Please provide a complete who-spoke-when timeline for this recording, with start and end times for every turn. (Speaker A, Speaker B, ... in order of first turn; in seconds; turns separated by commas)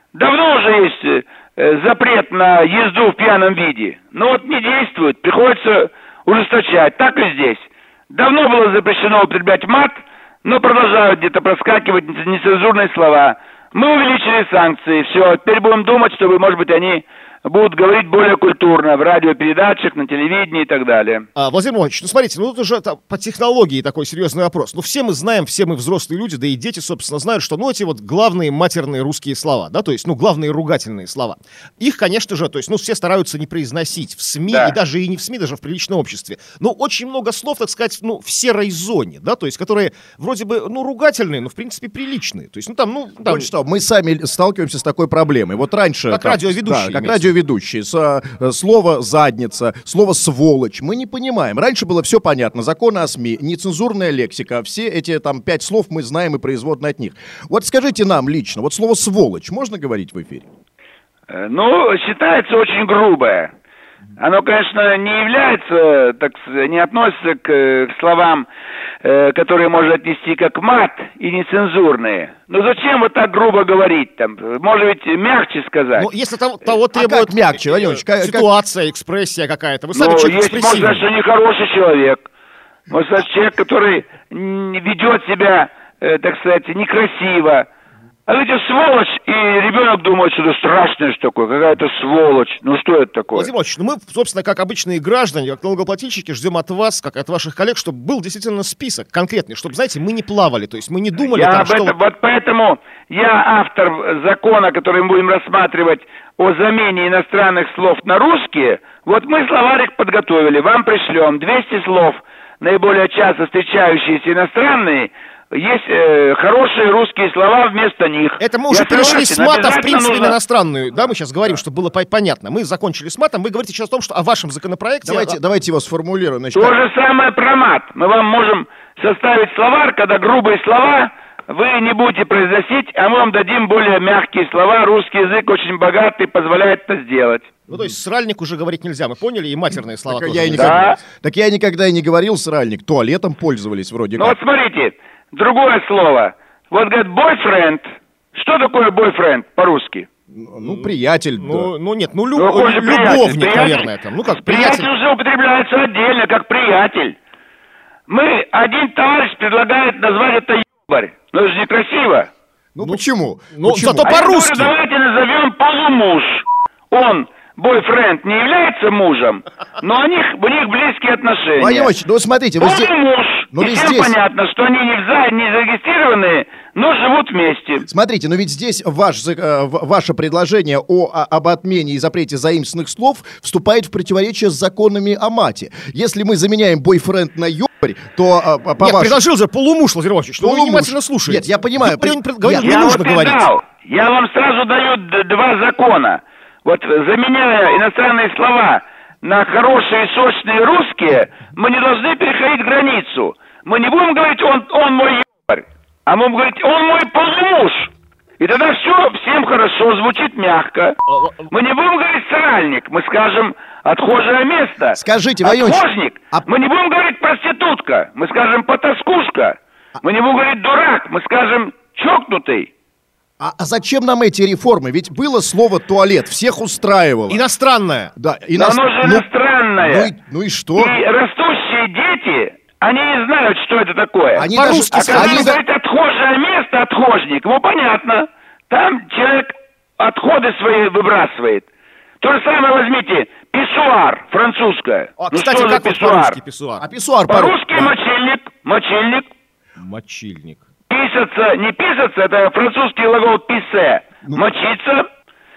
Speaker A: 0.1-21.3, Speaker B: 21.4-43.5, Speaker A: 34.5-34.8, Speaker C: 43.2-60.5, Speaker B: 46.1-47.3, Speaker A: 61.3-63.5, Speaker A: 64.2-68.5, Speaker A: 69.0-76.1, Speaker B: 76.0-81.0, Speaker C: 76.9-78.5, Speaker A: 80.0-82.2, Speaker A: 82.9-87.7, Speaker A: 88.3-93.5, Speaker B: 93.3-102.0, Speaker A: 101.3-120.4, Speaker B: 118.4-125.4, Speaker C: 125.0-126.8, Speaker A: 126.5-137.5, Speaker B: 137.7-140.9, Speaker C: 140.1-144.4, Speaker A: 140.5-141.0, Speaker A: 144.2-150.1, Speaker C: 150.3-151.7, Speaker B: 150.6-154.9, Speaker A: 152.4-153.9, Speaker A: 154.4-157.2, Speaker A: 158.1-162.3, Speaker C: 162.8-164.1, Speaker B: 163.6-164.7, Speaker A: 164.0-171.9, Speaker C: 171.6-172.9, Speaker A: 172.6-177.9, Speaker C: 173.5-174.2, Speaker C: 177.9-189.2, Speaker B: 188.8-193.5, Speaker C: 190.4-192.9, Speaker A: 192.6-211.0, Speaker B: 211.1-211.5, Speaker A: 211.5-222.7, Speaker C: 214.9-216.4, Speaker C: 223.4-227.4, Speaker B: 227.3-228.1, Speaker C: 228.2-229.2, Speaker A: 228.6-230.1, Speaker C: 229.8-230.9, Speaker A: 230.8-241.7, Speaker C: 234.4-235.6, Speaker B: 234.6-235.6, Speaker A: 242.2-246.4, Speaker B: 245.2-246.9, Speaker C: 246.8-247.9, Speaker A: 247.3-249.3, Speaker B: 249.8-250.6, Speaker A: 250.9-255.1